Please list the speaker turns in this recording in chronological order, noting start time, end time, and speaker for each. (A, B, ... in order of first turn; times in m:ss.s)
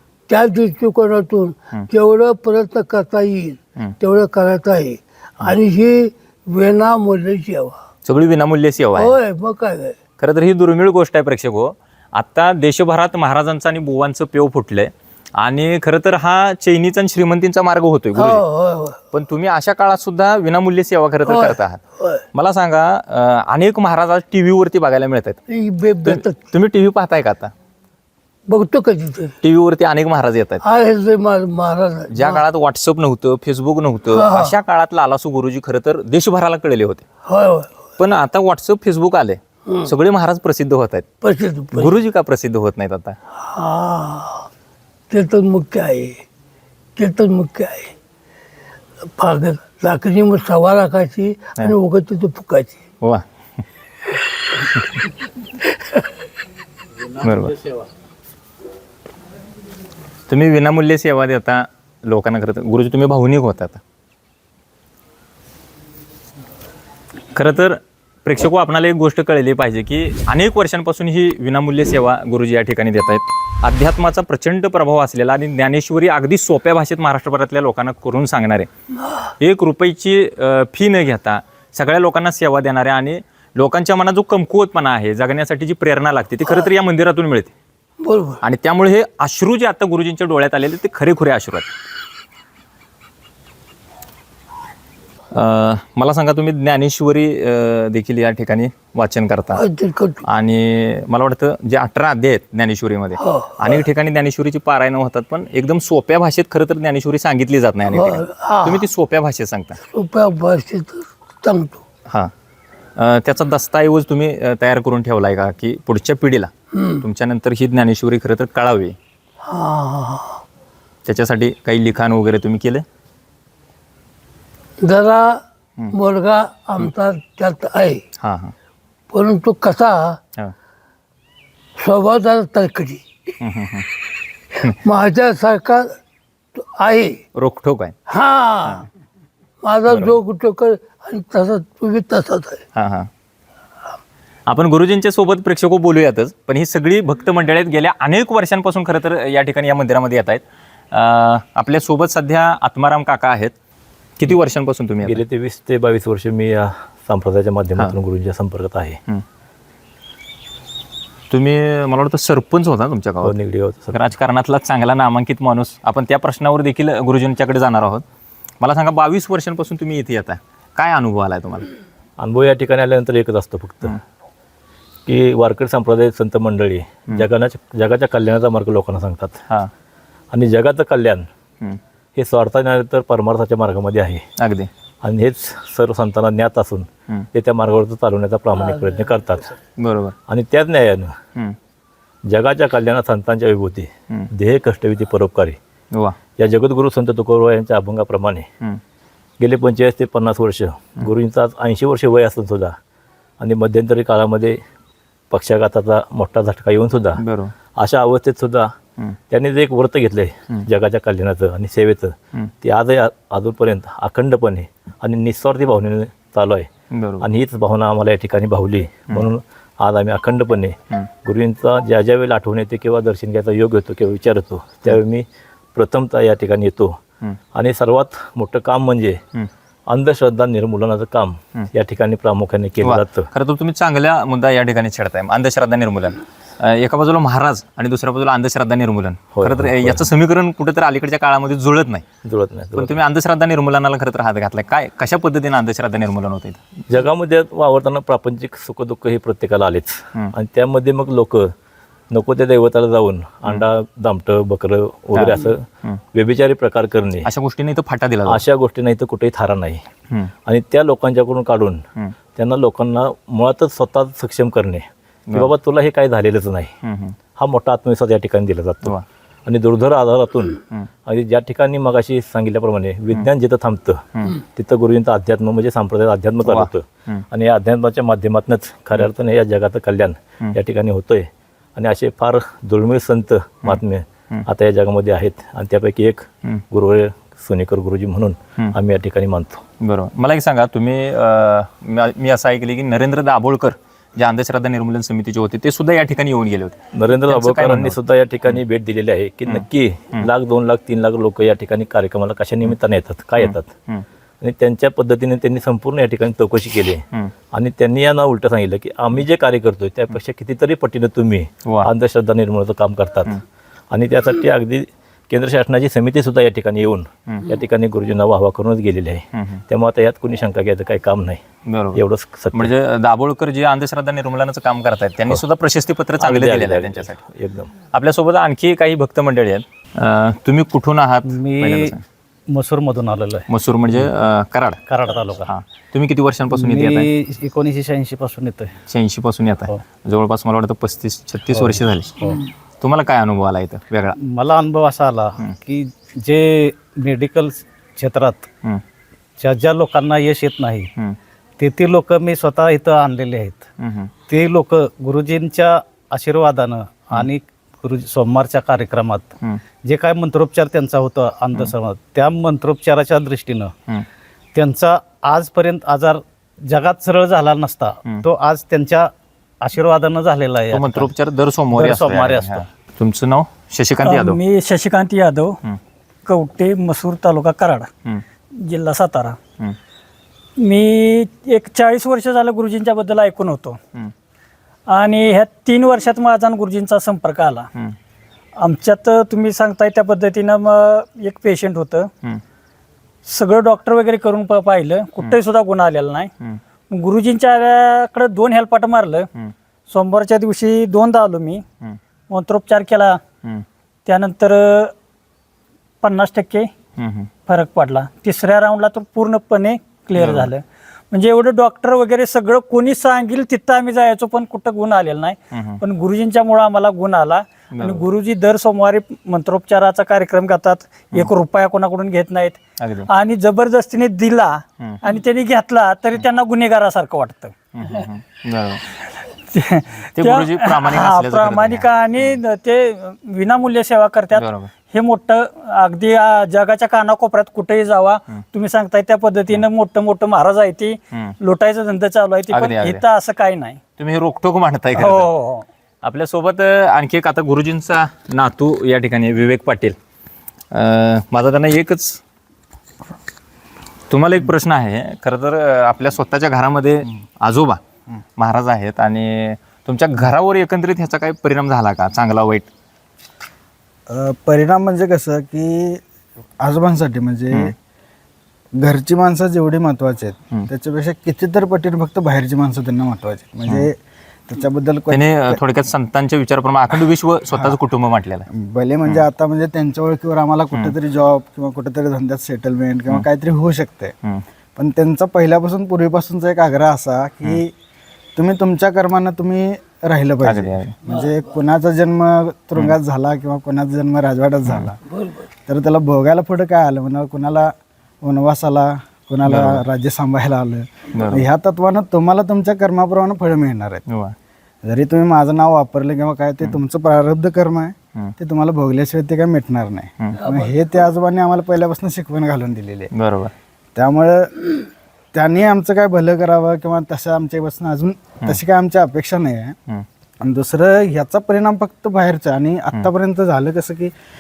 0:00.3-0:07.8 A
0:08.0-0:09.2 B
0:09.0-0:10.0 A
0:10.2-0:18.4 B
0:18.2-0:19.0 A
0:19.1-0:21.8 B
0:21.3-0:22.2 A
0:22.3-0:25.4 B
0:25.5-0:26.4 A
0:26.0-0:27.5 B
0:28.5-0:29.4 A
0:29.4-0:30.6 B
0:30.6-0:32.4 A
0:32.1-0:37.0 B
0:34.1-0:34.6 A
0:37.2-0:37.8 A
0:38.0-0:41.0 B
0:41.2-0:41.9 A
0:41.7-0:43.2 B
0:43.4-0:44.5 A
0:45.1-0:46.2 A
0:47.0-0:47.9 A
0:49.2-0:52.8 A
0:54.3-0:55.0 A
0:55.6-0:56.1 A
0:57.2-0:57.6 B
1:00.3-1:03.8 B
1:07.4-1:18.7 B
1:19.4-1:27.5 B
1:28.0-1:28.4 A
1:28.4-1:31.7 B
1:35.3-1:39.6 B
1:39.5-1:40.2 A
1:40.2-1:49.8 B
1:43.2-1:43.8 A
1:47.9-1:48.9 A
1:49.8-1:51.8 A
1:53.0-1:56.5 B
1:56.8-1:57.0 A
1:57.0-1:59.0 B
1:59.4-2:00.4 A
2:01.0-2:02.8 B
2:04.8-2:05.4 A
2:05.9-2:08.0 A
2:08.2-2:08.6 B
2:09.1-2:10.2 A
2:11.8-2:13.0 A
2:13.4-2:13.9 B
2:14.7-2:16.0 A
2:16.6-2:17.2 A
2:17.4-2:18.0 B
2:18.1-2:18.9 A
2:19.6-2:22.6 A
2:19.9-2:20.2 B
2:22.8-2:23.1 B
2:24.5-2:33.5 B
2:34.2-2:35.2 B
2:35.0-2:39.0 C
2:41.3-2:43.4 B
2:43.2-2:44.0 C
2:43.9-2:48.0 B
2:48.6-2:51.7 B
2:52.2-2:54.0 C
2:55.1-2:59.4 C
3:00.3-3:01.3 C
3:02.2-3:04.2 C
3:04.4-3:04.7 B
3:05.0-3:09.5 C
3:09.8-3:10.2 B
3:10.3-3:11.2 C
3:12.3-3:15.6 C
3:16.4-3:18.5 C
3:19.4-3:22.8 C
3:23.4-3:24.6 C
3:25.3-3:27.2 C
3:27.2-3:27.5 B
3:27.8-3:28.7 C
3:29.3-3:36.7 C
3:36.9-3:37.3 B
3:37.2-3:47.0 C
3:47.5-3:49.2 C
3:49.9-3:53.3 C
3:52.8-4:02.0 B
3:59.4-4:00.1 C
4:02.2-4:03.0 C
4:02.8-4:06.6 B
4:06.9-4:11.5 C
4:12.1-4:17.3 C
4:15.1-4:16.0 B
4:17.2-4:18.4 B
4:18.3-4:19.8 C
4:20.5-4:21.8 C
4:22.4-4:26.7 C
4:26.8-4:27.2 B
4:27.4-4:28.9 C
4:29.5-4:49.6 C
4:36.4-4:37.2 B
4:49.8-4:58.6 B
4:57.0-5:03.7 C
4:59.5-5:00.3 B
5:03.4-5:04.0 B
5:04.4-5:13.4 C
5:11.6-5:11.9 B
5:13.9-5:21.4 C
5:19.3-5:19.6 B
5:21.7-5:27.2 B
5:22.0-5:22.7 C
5:26.2-5:27.7 C
5:27.9-5:32.0 B
5:31.2-5:32.0 D
5:32.5-5:34.1 D
5:33.5-5:34.8 B
5:34.9-5:35.5 D
5:35.5-5:37.1 B
5:36.5-5:38.7 D
5:38.9-5:42.1 B
5:41.5-5:42.4 D
5:42.8-5:44.2 B
5:44.2-5:48.5 D
5:49.4-5:50.9 D
5:51.6-5:53.7 D
5:53.8-5:54.1 B
5:54.3-5:59.3 D
5:59.8-6:03.7 D
6:04.6-6:11.1 D
6:10.7-6:14.4 B
6:11.7-6:12.7 D
6:14.0-6:15.5 E
6:16.3-6:17.9 E
6:18.7-6:19.4 E
6:20.6-6:23.8 E
6:24.9-6:27.7 E
6:28.6-6:32.1 E
6:33.3-6:36.3 E
6:36.9-6:39.3 E
6:39.9-6:41.6 E
6:42.3-6:43.1 E
6:44.1-6:44.9 E
6:46.0-6:46.6 E
6:47.0-6:47.3 B
6:47.5-6:50.6 E
6:50.2-6:50.5 B
6:51.1-7:02.6 E
6:55.5-6:55.8 B
6:57.7-6:58.1 B
7:02.8-7:03.1 B
7:03.1-7:04.5 E
7:05.0-7:07.5 E
7:07.8-7:08.8 B
7:09.5-7:23.8 E
7:10.2-7:12.4 B
7:14.3-7:14.7 B
7:22.5-7:23.0 B
7:24.0-7:25.3 B
7:25.0-7:25.6 E
7:26.0-7:30.0 B
7:30.7-7:32.2 B
7:34.1-7:37.8 B
7:38.4-7:42.7 B
7:44.1-7:46.0 F
7:46.6-7:47.8 F
7:48.8-7:54.0 F
7:54.5-7:55.6 F
7:55.1-7:58.5 B
7:57.5-7:57.8 F
7:58.5-8:04.2 F
8:04.8-8:07.7 F
8:08.4-8:15.0 F
8:10.4-8:11.0 B
8:11.1-8:11.4 A
8:14.7-8:14.9 B
8:15.1-8:15.5 A
8:15.7-8:24.0 F
8:19.4-8:19.8 B
8:21.1-8:21.5 B
8:24.1-8:24.4 B
8:24.8-8:33.1 F
8:30.4-8:30.7 A
8:33.1-8:33.5 B
8:34.0-8:34.7 F
8:35.3-8:39.8 F
8:40.4-8:44.1 F